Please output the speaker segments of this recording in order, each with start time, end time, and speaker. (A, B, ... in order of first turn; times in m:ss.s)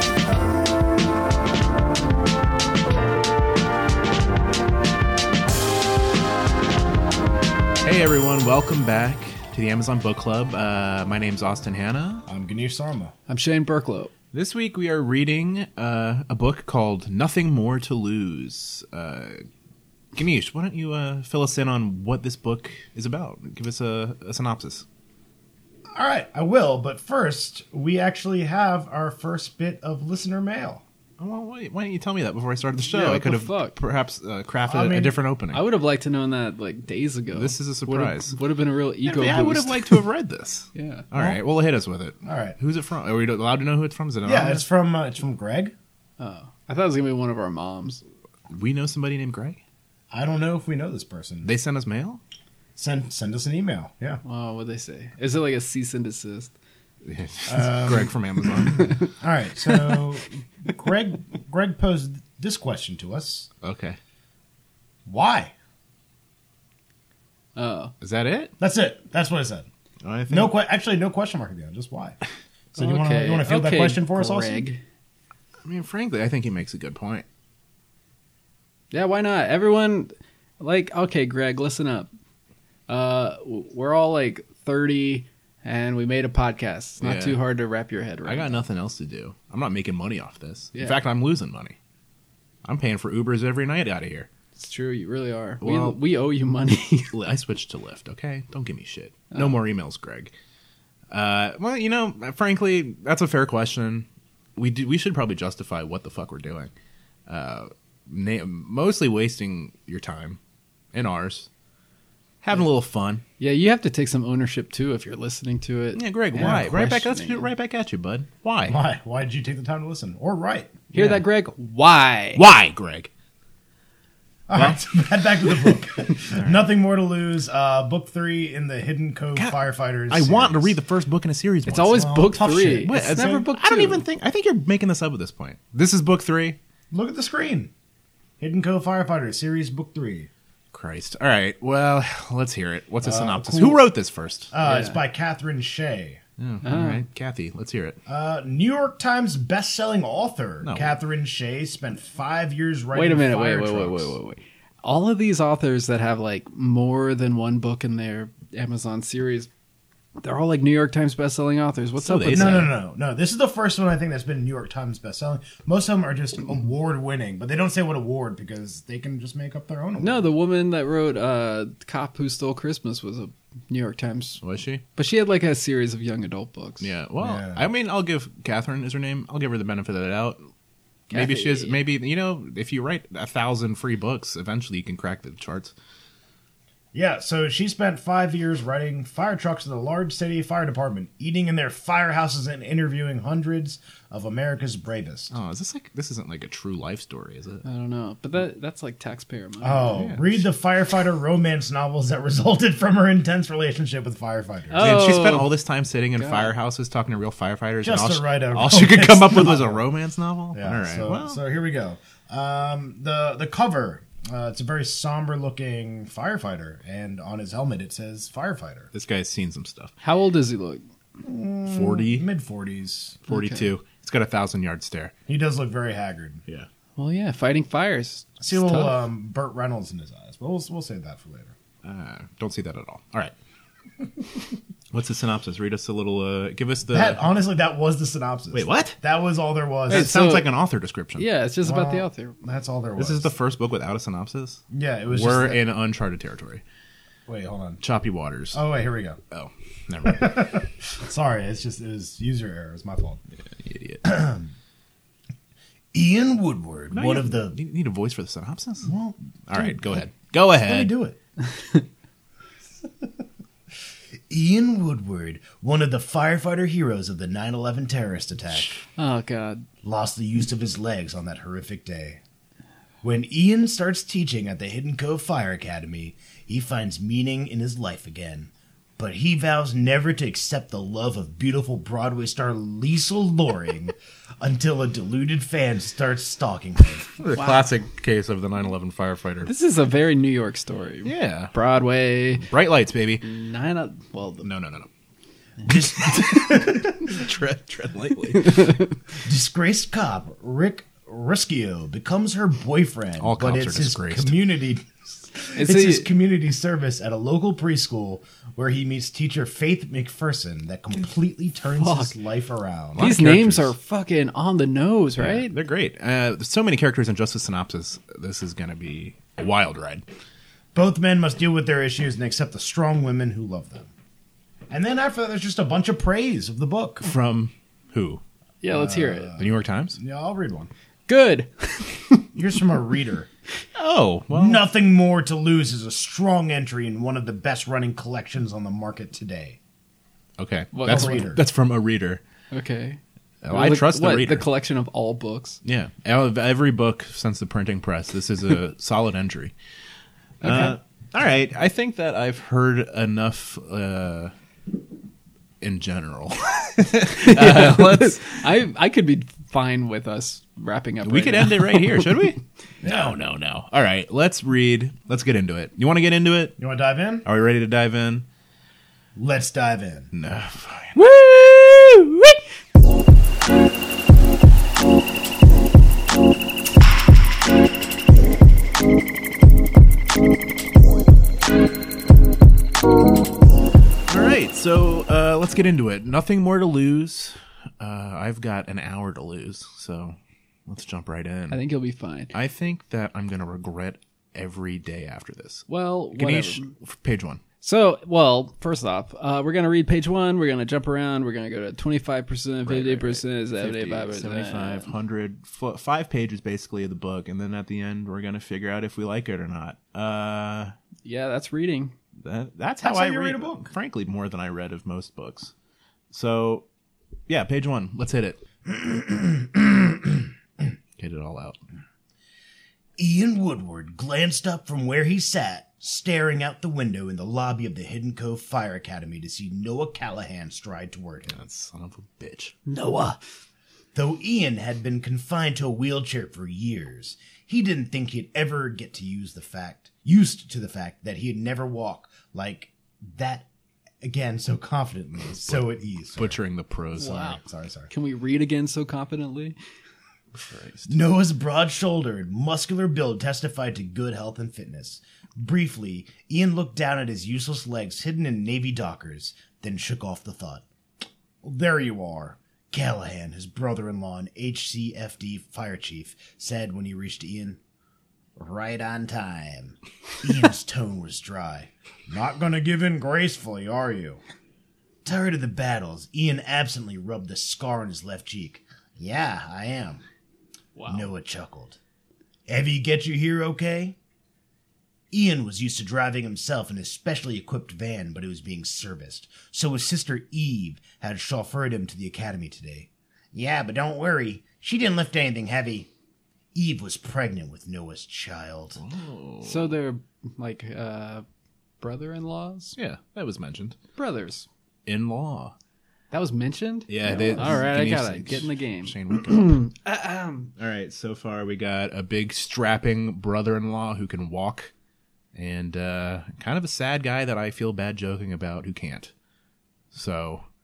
0:07.8-0:12.2 A
0:12.3-0:13.1 B
0:13.3-0:14.1 C
0:14.3-0:19.4 A
0:20.1-0:24.8 A
0:25.9-0:30.8 B
0:31.2-0:35.6 A
0:32.9-0:33.8 C
0:34.6-0:35.2 B
0:35.5-0:40.0 C
0:37.3-0:38.4 A
0:39.0-0:44.6 A
0:40.7-0:41.1 C
0:42.2-0:42.6 B
0:44.2-0:45.7 B
0:46.2-0:48.0 C
0:48.5-0:49.6 A
0:50.1-0:51.5 B
0:51.4-0:52.2 A
0:52.8-0:54.2 B
0:54.2-0:56.5 C
0:57.0-0:59.0 A
0:57.5-1:03.5 B
1:03.6-1:04.0 A
1:05.0-1:05.5 B
1:07.6-1:07.9 C
1:08.0-1:08.5 A
1:08.6-1:09.7 B
1:10.0-1:10.6 A
1:10.3-1:12.2 B
1:12.7-1:14.6 B
1:12.8-1:14.8 C
1:15.6-1:17.2 A
1:18.9-1:22.1 C
1:22.9-1:28.6 C
1:27.0-1:27.4 A
1:28.2-1:31.8 A
1:32.6-1:34.3 A
1:34.6-1:37.1 C
1:35.6-1:36.0 A
1:37.1-1:40.3 A
1:41.1-1:46.7 A
1:47.3-1:50.4 A
1:50.9-1:51.5 A
1:52.4-1:53.2 A
1:53.4-1:57.5 C
1:55.9-1:58.8 A
1:58.7-2:00.8 B
2:00.9-2:01.2 A
2:00.9-2:02.4 C
2:02.4-2:03.1 A
2:04.5-2:10.8 B
2:04.5-2:04.9 A
2:06.2-2:06.6 A
2:09.3-2:16.6 A
2:11.6-2:14.0 C
2:11.9-2:13.4 B
2:16.9-2:17.7 B
2:18.4-2:20.3 B
2:20.7-2:24.5 A
2:23.0-2:23.9 B
2:24.5-2:26.2 B
2:24.6-2:25.0 C
2:26.4-2:28.0 A
2:26.6-2:27.0 C
2:28.0-2:34.2 B
2:30.6-2:30.9 A
2:32.9-2:39.5 C
2:40.2-2:42.7 C
2:42.0-2:42.7 A
2:42.3-2:50.3 B
2:50.0-2:54.4 C
2:54.4-2:54.8 A
2:55.0-2:56.9 C
2:56.8-3:00.5 A
2:57.2-2:57.7 B
3:01.1-3:01.8 C
3:01.1-3:05.7 A
3:06.9-3:15.3 B
3:15.3-3:17.6 A
3:17.6-3:20.0 C
3:19.6-3:24.9 B
3:19.9-3:20.4 A
3:24.7-3:25.5 C
3:24.8-3:31.4 A
3:26.1-3:26.5 C
3:27.8-3:29.8 B
3:30.5-3:38.9 B
3:38.9-3:39.9 A
3:40.0-3:40.8 C
3:41.2-3:43.2 B
3:41.6-3:42.2 A
3:43.2-3:45.1 A
3:43.3-3:43.7 C
3:45.3-3:46.4 B
3:47.0-3:49.0 C
3:48.4-3:51.5 B
3:51.8-3:53.3 A
3:54.9-3:57.2 A
3:56.9-4:00.1 B
3:58.5-3:59.0 A
3:59.9-4:01.3 A
3:59.9-4:00.4 C
4:01.2-4:02.4 C
4:01.6-4:03.3 B
4:03.0-4:06.6 A
4:04.7-4:05.6 B
4:07.3-4:07.8 B
4:07.8-4:08.6 A
4:08.5-4:09.2 B
4:09.3-4:10.5 A
4:10.0-4:13.2 B
4:13.4-4:14.1 A
4:14.0-4:14.5 B
4:15.9-4:17.6 B
4:16.9-4:18.9 A
4:18.8-4:20.0 B
4:19.5-4:20.9 A
4:20.6-4:21.2 B
4:21.5-4:21.8 C
4:24.3-4:28.8 B
4:29.0-4:29.7 C
4:29.8-4:32.2 B
4:33.0-4:47.1 B
4:47.2-4:49.5 A
4:49.4-4:52.5 C
4:51.0-4:51.5 A
4:52.4-4:53.3 A
4:53.2-4:54.5 C
4:54.4-4:54.9 A
4:55.6-4:57.2 B
4:56.2-4:58.7 A
4:58.3-4:58.8 C
4:59.2-5:13.1 B
5:03.2-5:04.4 A
5:05.6-5:06.1 C
5:11.7-5:12.1 C
5:12.9-5:13.7 A
5:13.0-5:15.5 C
5:15.1-5:20.0 A
5:20.7-5:23.9 B
5:24.7-5:27.0 B
5:27.0-5:28.2 A
5:28.6-5:29.4 C
5:28.7-5:30.7 B
5:29.4-5:30.0 A
5:31.1-5:32.3 C
5:32.3-5:33.3 B
5:33.7-5:34.6 A
5:34.3-5:39.6 B
5:40.4-5:42.2 A
5:40.7-5:41.2 C
5:40.8-5:41.4 B
5:42.5-5:45.6 C
5:43.4-5:44.4 A
5:45.6-5:49.5 A
5:50.4-5:50.7 C
5:50.4-5:54.3 A
5:55.6-5:58.4 A
5:57.1-6:02.3 C
6:01.0-6:06.6 A
6:02.8-6:03.2 B
6:06.6-6:07.2 B
6:07.2-6:08.2 A
6:09.2-6:10.1 B
6:10.1-6:11.0 A
6:10.9-6:12.4 C
6:24.1-6:31.6 A
6:31.5-6:32.3 C
6:32.3-6:37.4 A
6:35.7-6:36.7 C
6:37.6-6:44.9 C
6:42.6-6:50.7 A
6:51.0-6:51.9 C
6:52.2-6:55.5 A
6:52.8-6:53.7 B
6:56.1-6:56.6 A
6:57.3-6:58.4 A
6:58.6-7:00.3 B
7:01.0-7:01.6 A
7:03.0-7:11.3 B
7:11.3-7:12.6 A
7:12.6-7:13.2 C
7:13.9-7:23.5 B
7:24.0-7:26.4 B
7:25.5-7:27.3 A
7:27.0-7:27.4 C
7:27.0-7:27.9 B
7:27.9-7:29.6 C
7:30.3-7:30.9 A
7:30.9-7:40.6 B
7:41.4-7:47.6 B
7:48.4-7:54.2 B
7:55.0-8:00.0 B
8:00.7-8:01.1 C
8:00.9-8:01.8 B
8:02.5-8:04.0 B
8:05.1-8:15.9 B
8:16.5-8:18.8 B
8:18.8-8:19.7 A
8:19.4-8:21.2 C
8:21.8-8:22.8 C
8:22.8-8:23.8 A
8:24.0-8:24.5 C
8:24.9-8:25.5 A
8:26.1-8:30.5 C
8:26.9-8:29.7 A
8:30.6-8:34.7 A
8:35.3-8:39.1 A
8:39.9-8:40.4 A